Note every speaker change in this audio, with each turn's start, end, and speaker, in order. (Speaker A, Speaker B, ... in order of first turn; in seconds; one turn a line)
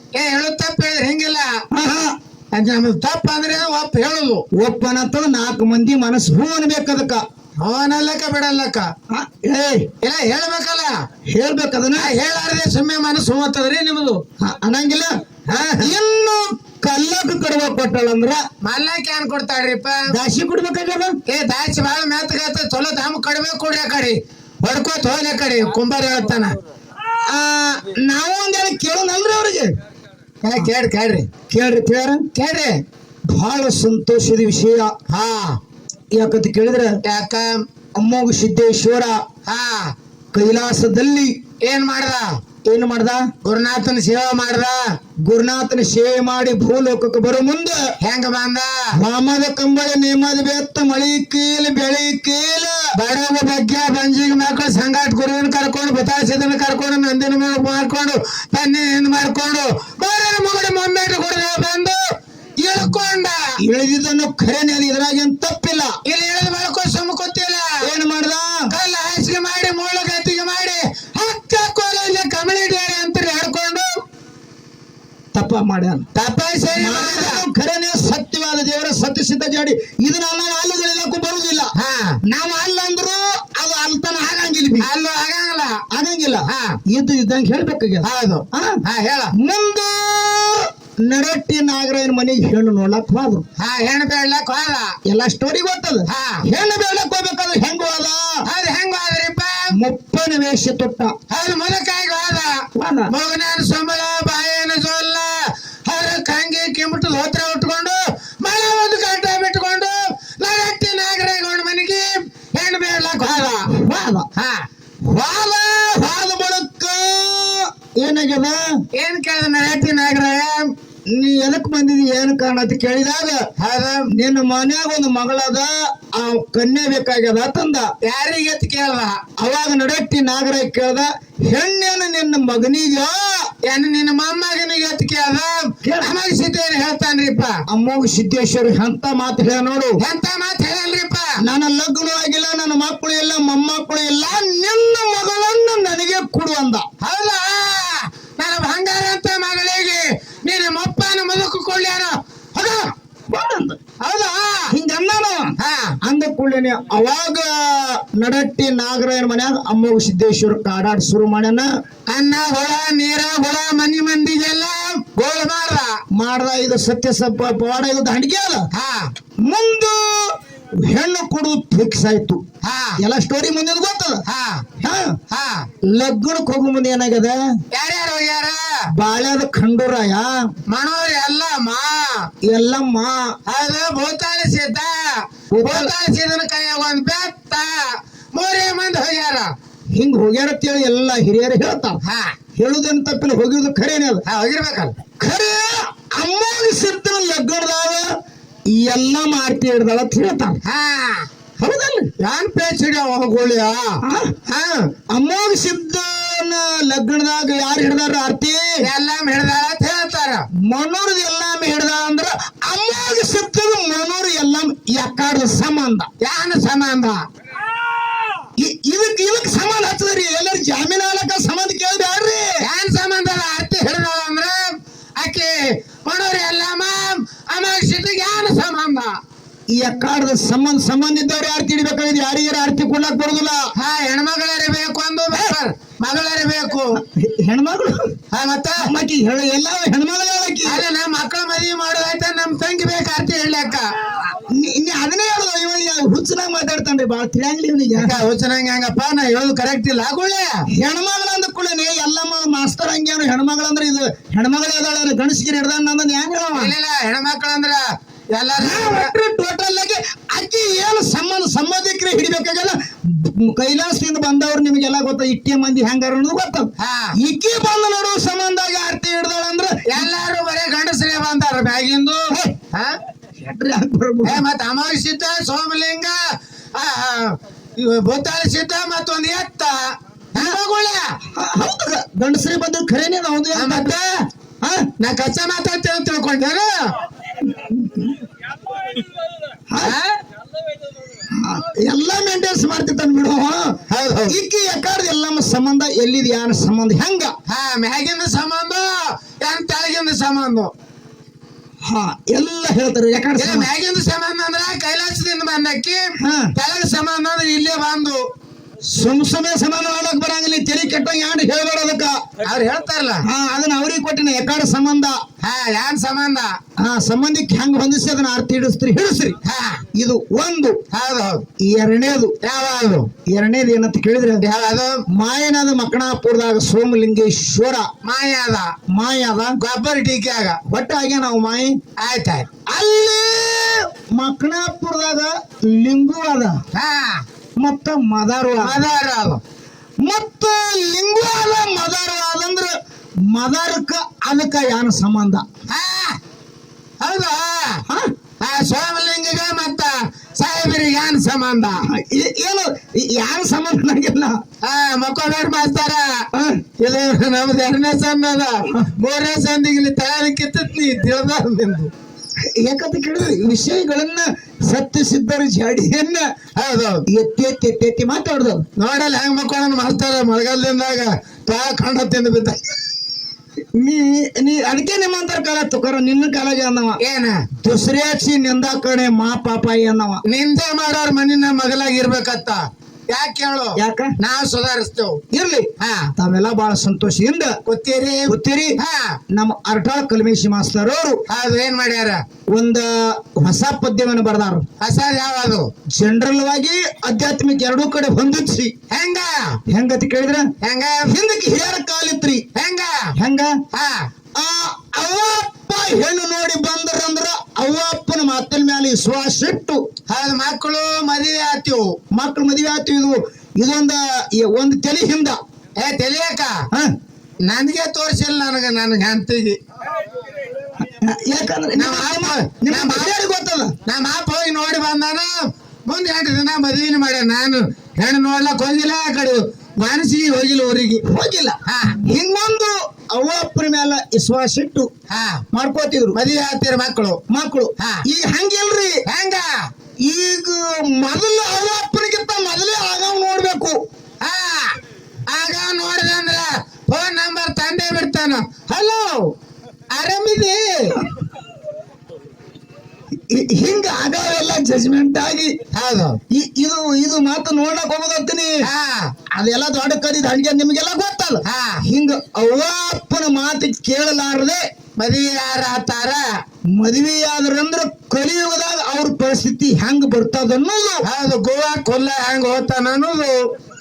Speaker A: 0.1-1.6
Speaker B: 1.7-2.1
Speaker A: 2.5-4.5
Speaker B: 4.6-7.2
Speaker A: 7.6-8.9
Speaker B: 9.1-9.9
Speaker A: 10.0-11.0
Speaker B: 11.3-12.1
Speaker A: 11.9-14.2
Speaker B: 14.4-18.4
Speaker A: 15.5-15.9
Speaker A: 18.6-20.0
Speaker B: 20.1-21.2
Speaker A: 21.3-26.6
Speaker B: 27.2-29.7
Speaker A: 30.4-31.3
Speaker B: 31.5-32.3
Speaker A: 32.3-32.8
Speaker B: 33.3-34.9
Speaker A: 35.1-35.6
Speaker B: 36.1-37.0
Speaker A: 37.0-37.7
Speaker B: 38.0-39.2
Speaker A: 39.5-39.9
Speaker B: 40.3-41.3
Speaker A: 41.6-42.3
Speaker B: 42.7-43.3
Speaker A: 43.4-44.9
Speaker B: 45.2-47.8
Speaker A: 48.0-48.8
Speaker B: 49.0-52.8
Speaker A: 53.0-62.0
Speaker A: 62.6-63.5
Speaker B: 63.6-66.0
Speaker A: 66.0-67.8
Speaker B: 67.8-68.7
Speaker A: 68.7-74.0
Speaker B: 75.3-76.0
Speaker A: 76.2-77.4
Speaker B: 76.8-84.9
Speaker A: 81.8-82.2
Speaker A: 84.8-85.8
Speaker B: 85.9-88.8
Speaker A: 86.5-86.8
Speaker A: 88.0-89.3
Speaker B: 89.3-93.4
Speaker A: 93.6-95.0
Speaker B: 95.1-98.4
Speaker A: 96.1-96.4
Speaker A: 98.5-99.7
Speaker B: 99.7-101.1
Speaker A: 101.3-113.7
Speaker B: 102.8-103.1
Speaker B: 113.2-114.3
Speaker A: 114.3-114.7
Speaker B: 115.1-118.6
Speaker A: 118.9-120.7
Speaker B: 121.1-123.4
Speaker A: 123.6-124.1
Speaker B: 124.1-127.9
Speaker A: 128.0-129.2
Speaker B: 129.4-133.5
Speaker A: 133.6-137.6
Speaker B: 135.8-136.2
Speaker B: 137.7-140.0
Speaker A: 140.0-141.3
Speaker B: 141.4-146.9
Speaker A: 147.0-152.9
Speaker B: 153.3-153.8
Speaker A: 154.0-154.7
Speaker B: 154.7-161.7
Speaker A: 155.6-156.0
Speaker A: 162.1-166.0
Speaker B: 166.2-168.7
Speaker A: 168.7-169.1
Speaker B: 169.4-172.4
Speaker A: 172.6-173.0
Speaker B: 173.0-174.2
Speaker A: 174.3-174.7
Speaker B: 174.8-175.2
Speaker A: 175.3-175.7
Speaker B: 175.8-177.4
Speaker A: 177.7-178.7
Speaker B: 178.9-180.3
Speaker A: 180.7-182.3
Speaker B: 182.5-183.3
Speaker A: 183.5-189.5
Speaker B: 185.5-185.9
Speaker B: 189.9-192.0
Speaker A: 192.0-192.3
Speaker B: 192.6-194.2
Speaker A: 194.2-195.0
Speaker B: 195.2-198.1
Speaker B: 198.7-200.6
Speaker A: 200.6-201.3
Speaker B: 201.6-202.1
Speaker A: 202.2-204.9
Speaker B: 204.0-204.3
Speaker B: 205.1-208.8
Speaker A: 208.8-210.5
Speaker B: 210.6-216.1
Speaker A: 216.2-217.2
Speaker B: 218.6-222.6
Speaker A: 222.6-229.2
Speaker B: 229.8-233.7
Speaker A: 233.8-237.0
Speaker B: 237.0-238.1
Speaker A: 238.3-238.9
Speaker B: 238.8-240.8
Speaker A: 240.7-243.9
Speaker B: 244.2-248.2
Speaker A: 248.0-250.6
Speaker B: 250.8-256.7
Speaker A: 256.5-259.1
Speaker B: 258.6-270.0
Speaker A: 266.8-267.1
Speaker A: 269.9-272.9
Speaker B: 273.4-274.4
Speaker A: 274.2-276.2
Speaker A: 276.7-281.1
Speaker B: 281.3-284.1
Speaker A: 283.6-284.0
Speaker B: 284.6-284.9
Speaker A: 285.0-286.9
Speaker B: 287.4-288.1
Speaker B: 289.7-289.9
Speaker A: 289.8-290.2
Speaker B: 291.3-293.8
Speaker A: 293.9-294.4
Speaker B: 294.3-297.4
Speaker A: 297.5-300.7
Speaker B: 301.8-303.7
Speaker A: 303.4-308.2
Speaker B: 306.2-306.5
Speaker B: 308.9-312.2
Speaker A: 312.4-313.2
Speaker B: 313.2-315.2
Speaker A: 315.4-316.6
Speaker B: 316.8-319.4
Speaker A: 319.4-319.8
Speaker B: 319.9-320.8
Speaker A: 320.9-321.4
Speaker B: 321.6-322.3
Speaker A: 322.4-323.1
Speaker B: 323.3-324.4
Speaker A: 324.4-325.0
Speaker B: 325.1-327.9
Speaker A: 328.0-328.7
Speaker B: 328.9-329.6
Speaker A: 329.6-330.6
Speaker B: 330.7-331.8
Speaker A: 332.0-332.5
Speaker B: 332.7-336.6
Speaker A: 336.7-337.2
Speaker B: 337.6-338.8
Speaker A: 338.6-339.4
Speaker B: 340.0-342.7
Speaker B: 343.3-345.4
Speaker A: 345.7-346.2
Speaker A: 347.0-347.8
Speaker A: 348.4-351.9
Speaker B: 351.9-354.4
Speaker A: 354.6-356.2
Speaker B: 356.3-356.6
Speaker A: 356.8-361.9
Speaker B: 362.4-366.2
Speaker A: 366.6-367.0
Speaker B: 367.1-368.7
Speaker A: 368.8-372.6
Speaker B: 373.7-377.0
Speaker A: 377.0-377.5
Speaker B: 377.6-380.2
Speaker A: 380.3-385.2
Speaker B: 383.8-384.1
Speaker B: 385.3-387.6
Speaker A: 385.8-386.1
Speaker A: 387.7-389.2
Speaker B: 388.3-388.8
Speaker B: 389.3-391.2
Speaker A: 391.3-392.2
Speaker B: 392.5-394.7
Speaker A: 394.8-395.7
Speaker B: 395.9-398.7
Speaker A: 398.9-399.6
Speaker B: 399.7-400.5
Speaker A: 400.6-401.1
Speaker B: 401.1-402.5
Speaker A: 402.6-403.1
Speaker B: 403.2-403.6
Speaker A: 403.7-404.1
Speaker B: 404.4-409.8
Speaker A: 410.1-412.0
Speaker B: 412.1-415.4
Speaker A: 415.8-416.6
Speaker A: 417.4-419.6
Speaker B: 420.8-423.7
Speaker A: 421.8-423.1
Speaker A: 423.9-431.0
Speaker B: 431.0-434.9
Speaker A: 431.7-432.0
Speaker A: 435.1-435.4
Speaker B: 435.5-436.2
Speaker A: 436.1-437.2
Speaker B: 437.3-439.0
Speaker A: 437.8-438.0
Speaker A: 439.1-439.7
Speaker B: 440.1-443.8
Speaker A: 444.2-444.8
Speaker A: 445.3-449.3
Speaker A: 449.9-451.0
Speaker B: 451.0-451.2
Speaker B: 453.3-455.6
Speaker A: 455.7-456.2
Speaker B: 456.3-458.6
Speaker A: 458.6-459.1
Speaker B: 459.3-464.6
Speaker A: 461.4-461.8
Speaker A: 465.0-466.4
Speaker B: 466.8-471.0
Speaker A: 471.1-473.4